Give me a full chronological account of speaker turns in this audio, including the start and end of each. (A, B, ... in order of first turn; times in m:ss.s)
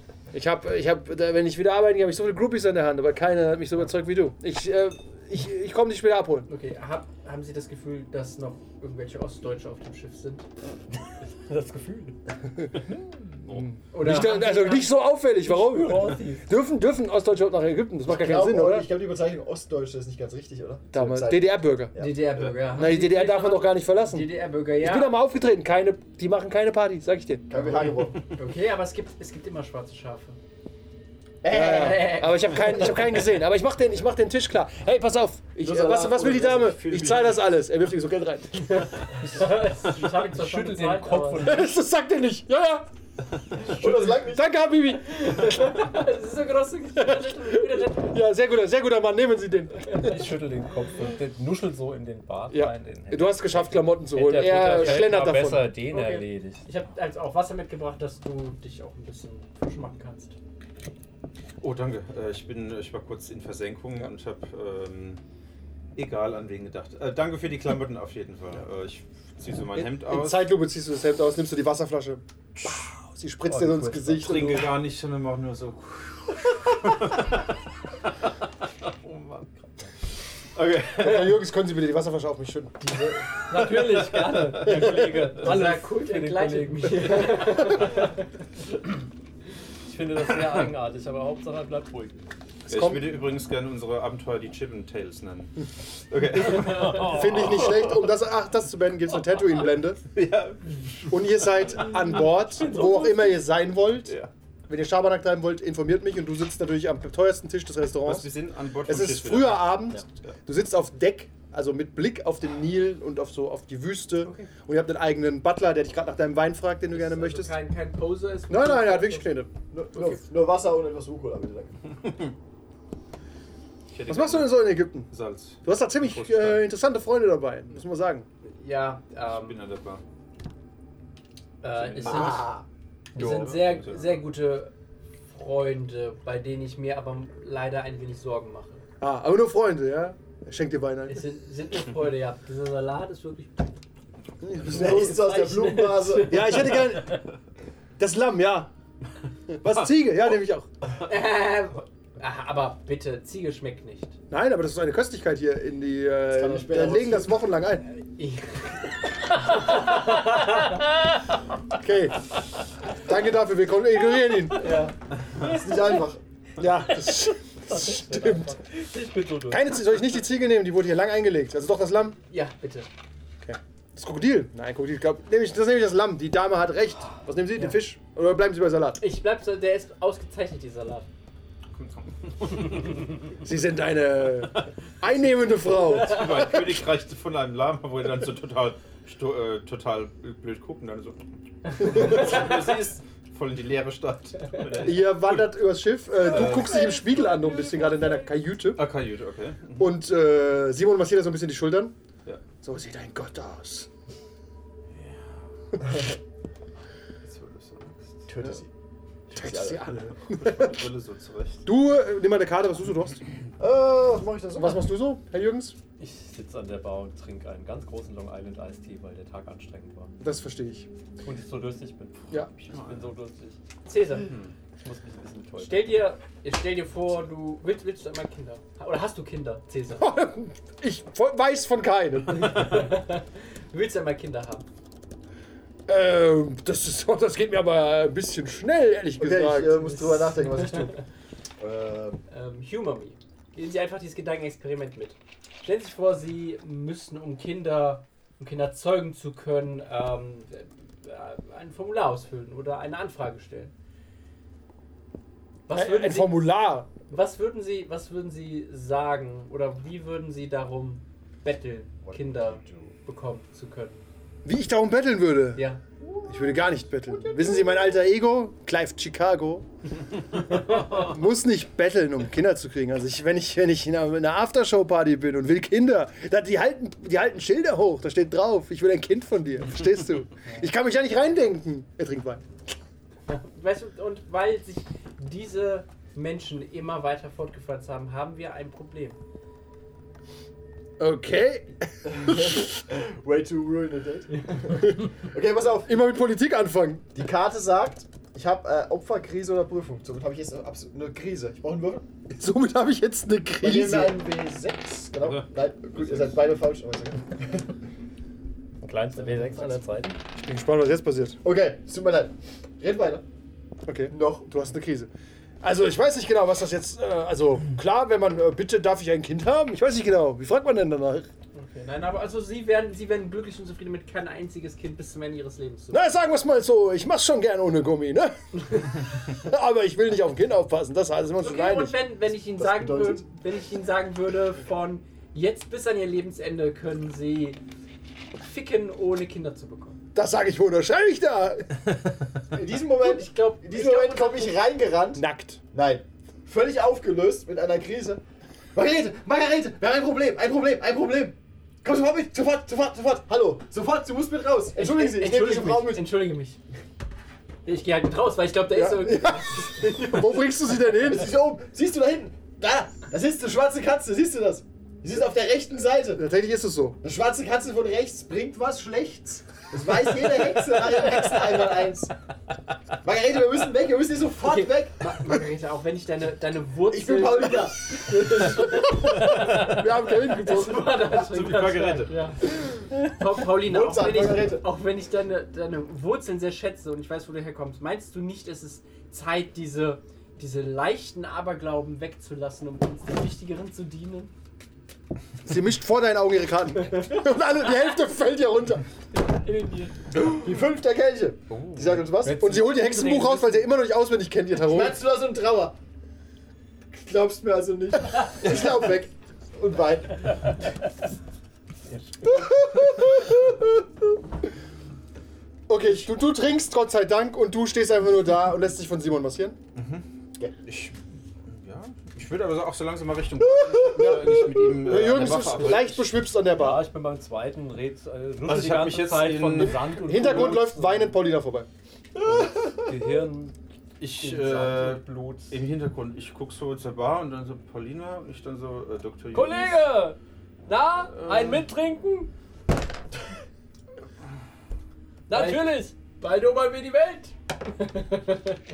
0:00.3-0:06.5 A
0:06.5-0:10.4 B
0:11.3-0:12.2 C
0:13.5-0:18.9 A
0:13.9-0:14.9 B
0:15.5-0:16.4 C
0:16.1-0:16.4 B
0:18.1-0:22.2 D
0:20.9-0:22.0 A
0:22.0-0:25.1 B
0:22.6-0:27.5 A
0:27.5-0:28.2 D
0:28.3-0:30.4 B
0:31.4-0:32.2 D
0:31.4-0:38.8 A
0:31.5-0:33.2 B
0:35.6-0:37.3 D
0:38.7-0:41.6 B
0:39.5-0:41.7 C
0:41.4-0:42.9 A
0:43.7-0:44.5 D
0:43.7-0:45.9 A
0:45.1-0:48.2 B
0:47.0-0:50.4 A
0:49.9-0:56.7 C
0:52.5-0:55.8 A
0:55.9-1:00.4 B
1:01.6-1:05.2 E
1:06.0-1:10.5 E
1:09.8-1:14.7 A
1:13.5-1:14.7 C
1:14.2-1:17.5 E
1:18.8-1:19.5 E
1:20.6-1:21.4 E
1:21.0-1:22.8 A
1:22.9-1:23.6 B
1:23.5-1:28.2 C
1:23.6-1:25.3 E
1:24.7-1:25.6 A
1:25.0-1:28.1 B
1:29.8-1:32.2 C
1:30.3-1:30.7 E
1:32.7-1:33.1 A
1:32.7-1:38.1 E
1:36.4-1:37.9 C
1:36.9-1:40.0 A
1:40.1-1:41.3 E
1:41.1-1:44.2 A
1:41.9-1:43.4 C
1:44.0-1:44.3 E
1:44.7-1:48.3 A
1:48.0-1:50.4 E
1:48.9-1:57.5 A
1:54.2-1:54.5 B
1:56.9-1:59.4 B
1:58.5-1:59.5 A
1:59.7-2:01.8 D
1:59.9-2:00.2 B
2:03.9-2:06.7 E
2:04.1-2:05.1 A
2:05.6-2:08.3 A
2:08.4-2:09.6 B
2:09.3-2:10.0 E
2:11.6-2:12.5 B
2:11.8-2:12.4 E
2:12.0-2:12.6 D
2:13.2-2:14.7 B
2:13.2-2:14.2 E
2:15.3-2:18.8 B
2:19.0-2:21.2 A
2:21.1-2:23.7 B
2:24.4-2:25.3 A
2:24.6-2:26.8 D
2:24.7-2:26.9 B
2:26.3-2:27.3 A
2:28.0-2:28.7 A
2:29.5-2:30.7 A
2:31.0-2:34.2 B
2:34.3-2:37.9 A
2:36.3-2:37.4 D
2:38.2-2:40.8 B
2:41.8-2:42.3 A
2:42.9-2:44.7 A
2:44.6-2:44.9 B
2:45.4-2:46.2 D
2:46.6-2:48.6 A
2:46.9-2:49.8 C
2:49.5-2:52.2 A
2:52.3-2:52.9 B
2:53.4-2:59.0 A
2:59.0-3:01.1 B
3:01.7-3:03.1 E
3:03.4-3:06.5 A
3:05.9-3:15.5 E
3:11.8-3:12.5 A
3:14.8-3:18.8 A
3:16.2-3:17.0 E
3:17.5-3:18.1 C
3:18.8-3:19.9 E
3:19.8-3:22.0 A
3:22.6-3:23.9 A
3:24.9-3:25.4 E
3:27.2-3:28.3 E
3:28.3-3:28.7 D
3:29.3-3:30.0 D
3:29.3-3:30.8 A
3:30.3-3:31.6 E
3:31.6-3:33.2 A
3:33.6-3:34.9 D
3:34.6-3:35.8 A
3:36.0-3:40.1 C
3:40.2-3:40.9 A
3:41.2-3:43.6 C
3:42.5-3:43.1 E
3:43.8-3:44.3 B
3:44.2-3:44.5 E
3:44.8-3:46.0 C
3:45.6-3:50.1 B
3:50.0-3:52.8 A
3:52.3-3:54.6 B
3:55.9-3:59.9 A
3:59.2-4:01.0 D
3:59.8-4:00.9 B
4:01.6-4:02.2 D
4:02.3-4:13.7 B
4:15.7-4:16.4 B
4:15.7-4:16.9 A
4:17.1-4:24.0 B
4:22.0-4:22.9 D
4:24.4-4:25.7 A
4:25.6-4:25.8 B
4:26.0-4:28.0 D
4:26.3-4:29.7 A
4:30.4-4:42.4 A
4:43.3-4:49.2 B
4:51.0-4:52.8 A
4:52.2-4:56.1 D
4:54.4-4:54.7 B
4:55.9-4:57.1 A
4:57.2-5:02.0 D
5:02.3-5:04.2 A
5:03.6-5:07.7 D
5:05.2-5:06.4 E
5:08.8-5:10.2 C
5:09.2-5:09.8 D
5:10.3-5:11.4 A
5:11.4-5:13.2 D
5:13.9-5:15.1 A
5:14.1-5:14.5 D
5:15.6-5:21.3 A
5:21.6-5:26.0 B
5:25.9-5:32.0 A
5:31.4-5:37.6 B
5:32.3-5:33.2 D
5:38.4-5:40.0 B
5:40.2-5:41.8 A
5:42.5-5:48.2 D
5:43.0-5:44.6 B
5:45.2-5:45.6 A
5:48.7-5:56.0 D
5:54.8-5:56.6 B
5:54.8-5:56.0 A
5:57.6-6:00.2 B
5:58.7-6:01.3 A
6:00.9-6:06.2 D
6:06.2-6:07.0 A
6:07.0-6:12.1 D
6:13.0-6:15.0 D
6:14.4-6:22.4 B
6:16.9-6:18.8 D
6:18.8-6:21.1 A
6:21.0-6:22.2 E
6:23.0-6:34.3 B
6:23.5-6:24.7 D
6:35.4-6:38.9 A
6:39.2-6:39.9 B
6:40.2-6:42.4 D
6:41.5-6:42.0 E
6:42.2-6:43.7 B
6:42.2-6:45.0 A
6:44.6-6:45.8 D
6:46.9-6:48.9 D
6:48.1-6:49.1 A
6:49.6-6:50.5 D
6:51.9-6:52.3 C
6:52.3-6:53.8 A
6:55.7-6:59.6 A
6:59.8-7:00.0 E
7:00.7-7:06.1 E
7:03.7-7:06.9 A
7:04.0-7:04.7 D
7:06.5-7:11.2 C
7:08.4-7:10.0 E
7:10.0-7:11.7 A
7:12.2-7:13.0 D
7:12.2-7:15.6 C
7:14.0-7:19.9 E
7:19.3-7:22.3 C
7:21.2-7:21.6 E
7:25.3-7:27.3 C
7:25.3-7:27.1 B